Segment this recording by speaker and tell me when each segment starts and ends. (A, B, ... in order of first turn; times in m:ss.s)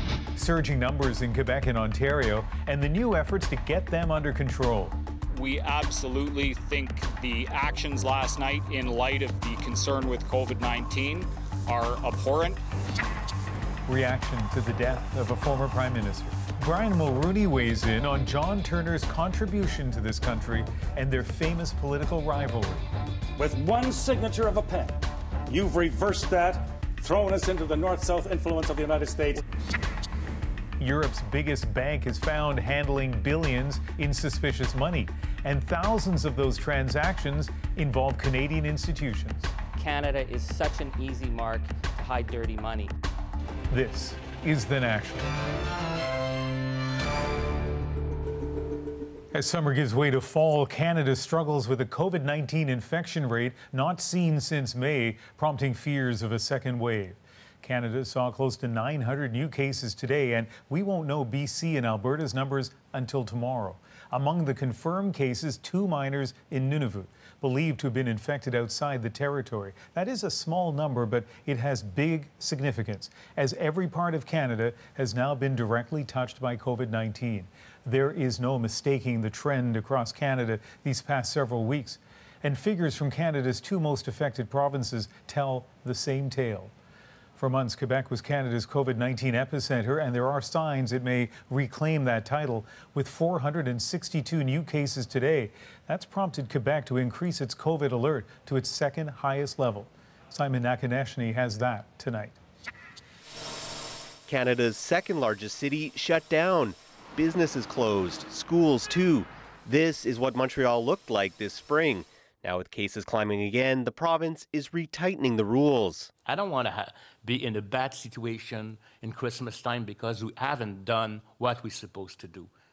0:00.4-0:05.0 A
0:05.3-0:12.6 B
0:13.9-0:22.8 A
0:23.4-0:29.4 C
0:30.8-0:39.5 A
0:39.8-0:42.9 D
0:43.7-0:45.3 A
0:49.3-1:26.7 A
1:27.4-1:42.4 A
1:44.3-1:56.1 E
1:56.3-2:02.5 F